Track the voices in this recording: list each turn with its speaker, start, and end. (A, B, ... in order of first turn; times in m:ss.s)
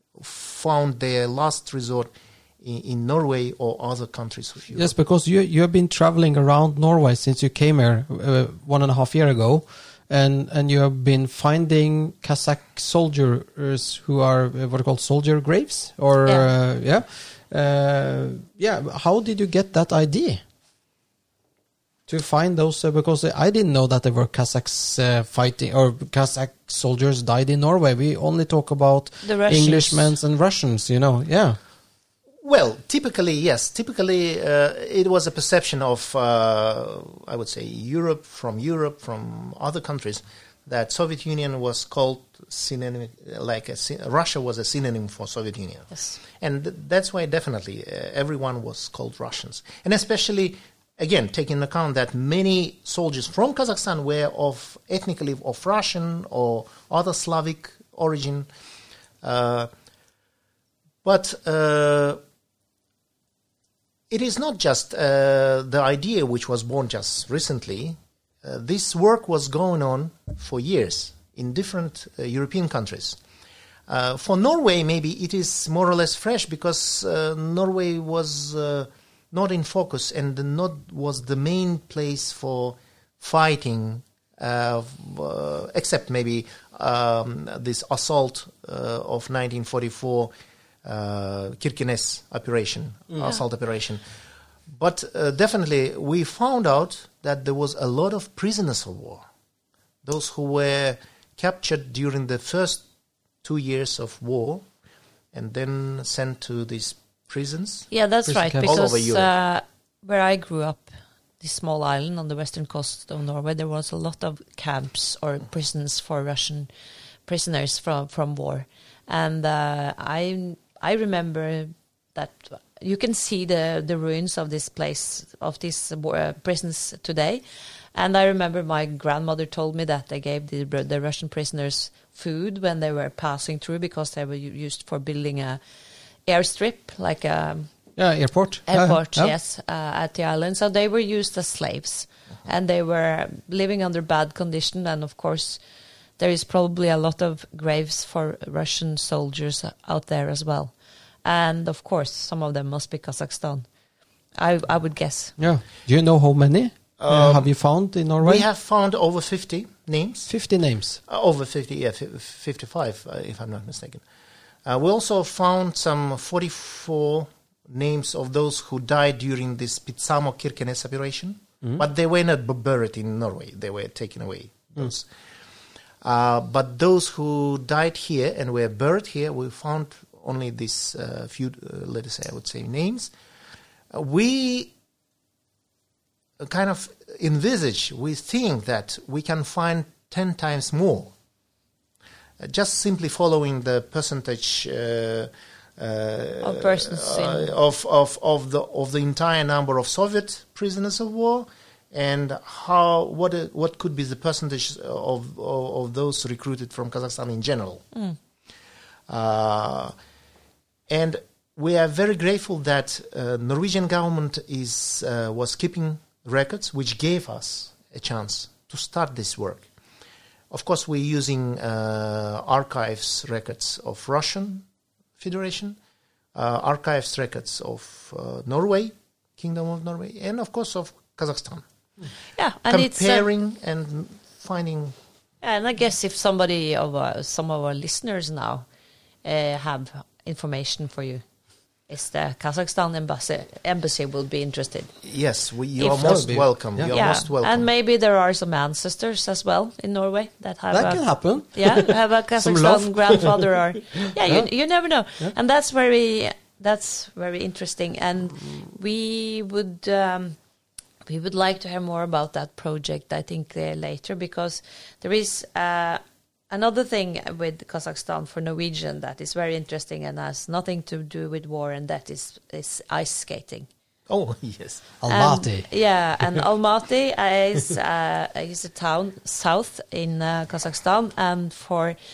0:00.2-0:04.9 A
0:04.7-0:20.4 B
0:22.1-0:31.6 B
0:29.2-0:30.1 C
0:32.4-0:58.5 A
0:59.2-0:59.7 A
1:01.0-1:02.2 A
1:04.1-1:13.2 A
1:13.9-1:30.3 A
1:30.8-1:34.0 A
1:34.7-1:39.2 A
1:40.0-1:42.8 A
1:43.4-1:44.6 A
1:45.3-1:47.9 A
1:47.9-1:56.7 C
1:48.2-1:48.8 B
1:48.6-1:49.3 A
1:57.2-2:07.4 C
2:07.9-2:15.6 C
2:16.2-2:17.7 C
2:18.0-2:19.3 B
2:18.7-2:25.6 C
2:26.2-2:30.7 C
2:31.2-2:33.6 C
2:34.4-2:35.3 C
2:35.4-2:38.4 B
2:37.0-2:37.5 A
2:38.2-2:40.3 A
2:40.3-2:41.0 B
2:41.0-2:44.0 A
2:44.6-2:55.1 A
2:56.0-3:03.1 A
3:03.9-3:04.7 A
3:06.4-3:11.1 A
3:12.4-3:27.8 A
3:16.4-3:17.5 C
3:29.1-3:29.9 A
3:30.9-3:39.7 A
3:40.5-3:44.6 A
3:45.2-3:45.8 A
3:46.3-3:51.6 A
3:52.4-3:53.2 C
3:52.7-3:54.9 A
3:55.4-3:58.6 C
3:59.2-4:01.2 C
4:01.9-4:05.0 C
4:05.0-4:07.7 A
4:05.8-4:06.2 C
4:05.9-4:06.9 B
4:06.9-4:20.4 C
4:10.7-4:12.0 B
4:12.4-4:12.8 A
4:12.7-4:13.3 B
4:14.2-4:14.5 B
4:21.0-4:33.7 C
4:34.1-4:34.9 A
4:35.0-4:35.7 B
4:35.1-4:42.0 C